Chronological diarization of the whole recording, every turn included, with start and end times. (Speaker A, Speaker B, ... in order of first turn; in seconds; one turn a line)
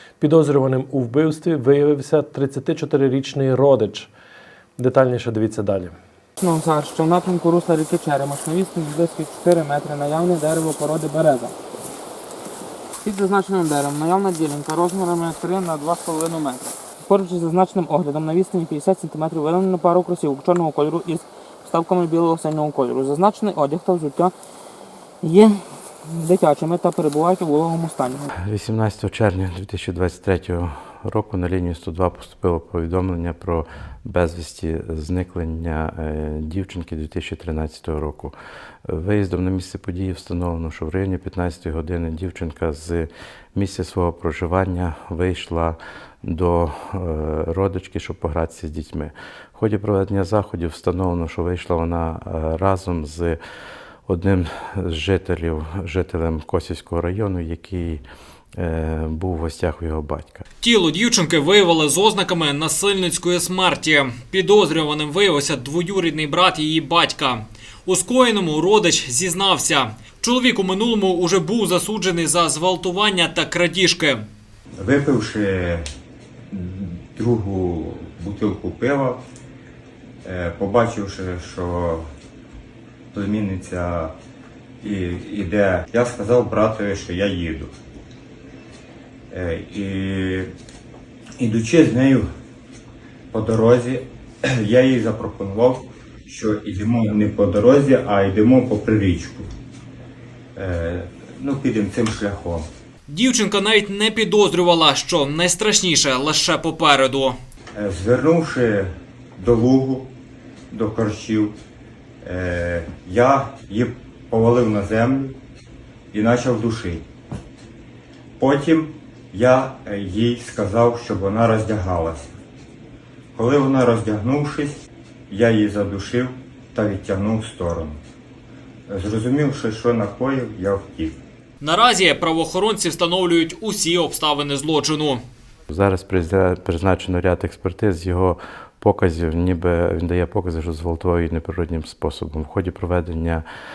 Speaker A: 0.2-4.1
Speaker A: 4.8-5.9
Speaker B: 6.4-11.5
Speaker B: 13.0-24.3
Speaker B: 25.2-28.3
Speaker C: 28.4-38.3
Speaker C: 38.9-53.4
Speaker C: 54.0-58.0
Speaker C: 58.6-60.5
Speaker D: 60.6-74.2
Speaker E: 74.8-75.8
Speaker E: 76.5-79.2
Speaker E: 80.2-82.0
Speaker E: 83.1-84.1
Speaker E: 84.8-87.7
Speaker E: 89.3-90.5
Speaker E: 91.4-92.3
Speaker E: 93.3-99.5
Speaker E: 100.5-102.7
Speaker D: 103.1-107.4
Speaker E: 107.7-110.1
Speaker E: 110.7-111.5
Speaker E: 112.2-115.4
Speaker E: 116.1-117.0
Speaker E: 118.4-122.3
Speaker E: 123.3-128.0
Speaker E: 128.9-131.2
Speaker D: 131.6-135.2
Speaker C: 135.7-143.4